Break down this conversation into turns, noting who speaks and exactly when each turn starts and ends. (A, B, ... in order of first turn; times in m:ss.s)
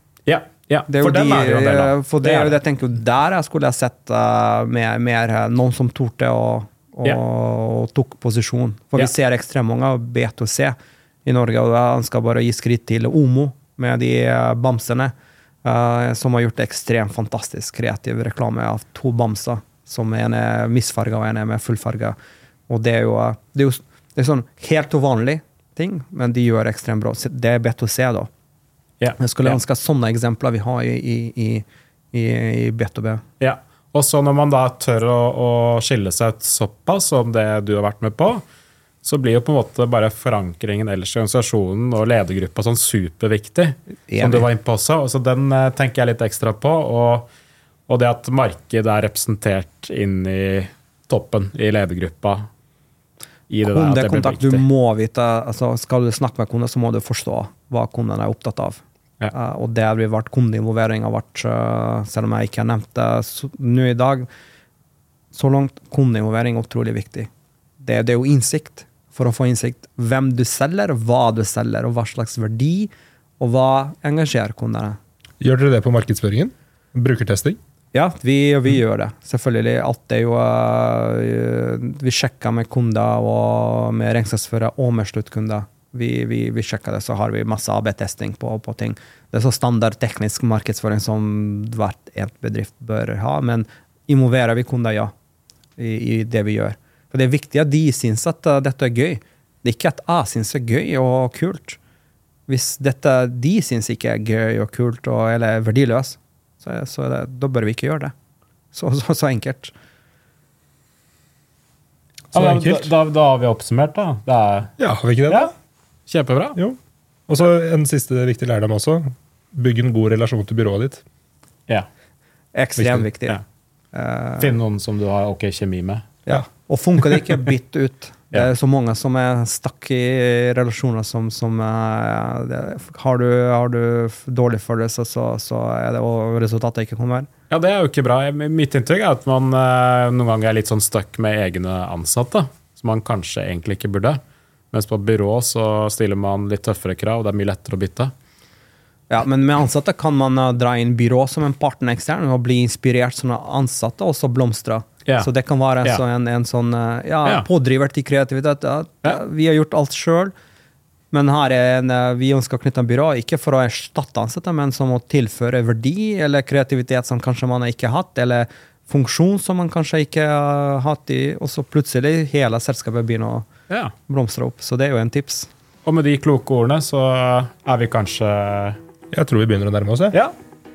0:00.3-0:02.6 A
0:00.9-0:15.1 B
0:15.6-0:22.2 B
0:22.7-0:28.3 B
0:29.0-0:29.6 A
0:29.2-0:33.2 B
0:33.4-0:38.4 A
0:39.0-0:47.3 A
0:44.1-0:44.5 B
0:47.9-0:52.5 A
0:53.5-0:54.6 A
0:53.6-0:58.8 B
0:59.3-1:04.3 B
1:05.3-1:15.0 B
1:15.4-1:17.6 C
1:17.9-1:35.1 B
1:35.8-1:41.8 B
1:42.5-1:48.1 B
1:48.7-1:49.7 B
1:52.3-1:54.7 A
1:52.3-1:52.9 C
1:54.8-1:55.5 C
1:56.1-1:56.6 A
1:56.6-2:01.0 C
2:02.5-2:03.4 B
2:03.9-2:04.6 B
2:04.4-2:06.2 A
2:06.3-2:17.3 B
2:17.5-2:28.1 A
2:29.1-2:40.3 B
2:41.1-2:53.5 B
2:54.1-2:55.5 B
2:55.8-2:58.8 A
2:59.1-3:00.2 C